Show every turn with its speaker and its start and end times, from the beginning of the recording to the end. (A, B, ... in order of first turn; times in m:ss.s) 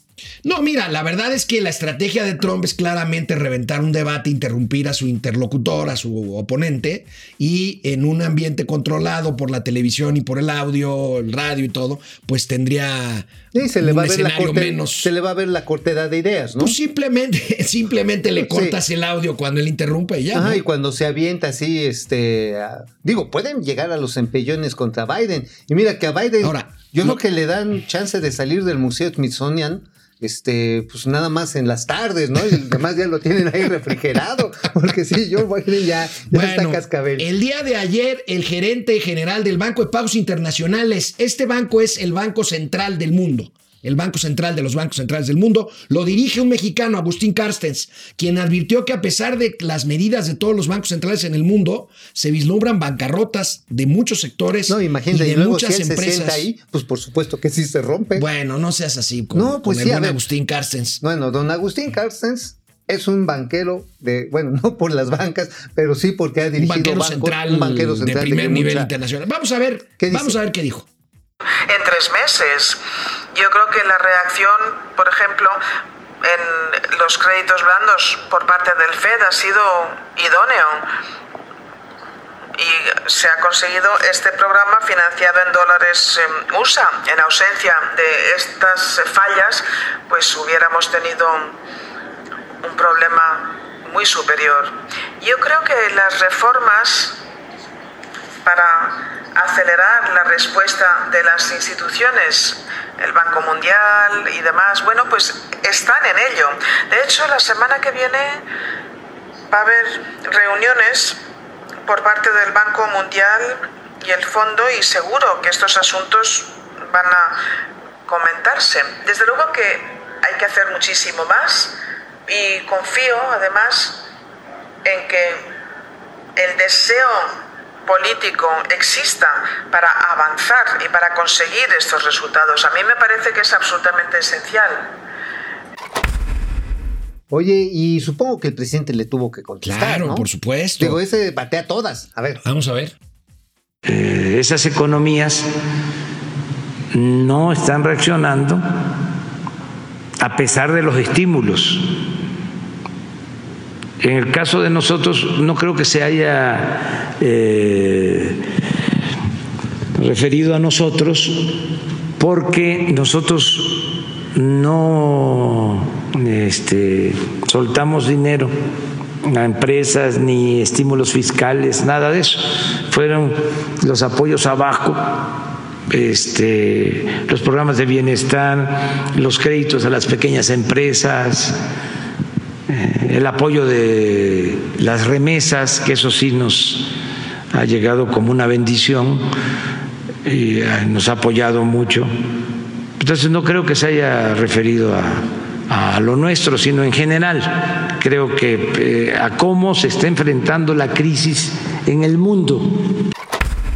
0:00.4-0:15.1 A
0:13.5-0:16.8 B
0:16.6-0:20.6 A
0:18.4-0:18.8 B
0:20.3-0:37.3 B
0:26.4-0:27.2 A
0:36.3-0:56.5 A
0:54.7-0:58.2 B
0:58.1-1:01.0 A
0:59.3-1:00.2 B
1:01.0-1:08.9 B
1:06.6-1:10.9 A
1:10.0-1:10.4 B
1:11.7-1:12.8 C
1:13.3-1:15.6 C
1:16.2-1:20.8 C
1:22.6-1:31.6 C
1:32.6-1:37.2 C
1:38.4-1:48.4 C
1:49.5-1:51.2 C
1:51.8-1:57.4 C
1:58.1-2:01.8 C
2:02.3-2:04.0 C
2:04.8-2:05.4 C
2:06.4-2:07.3 C
2:07.8-2:14.9 C
2:17.3-2:22.4 B
2:19.6-2:21.0 A
2:22.4-2:22.9 A
2:23.8-2:25.5 D
2:26.9-2:28.6 D
2:30.2-2:31.9 D
2:34.0-2:38.4 D
2:40.0-2:48.5 D
2:49.2-3:01.6 D
3:02.7-3:06.9 D
3:07.5-3:09.2 D
3:10.2-3:12.1 D
3:13.0-3:22.6 D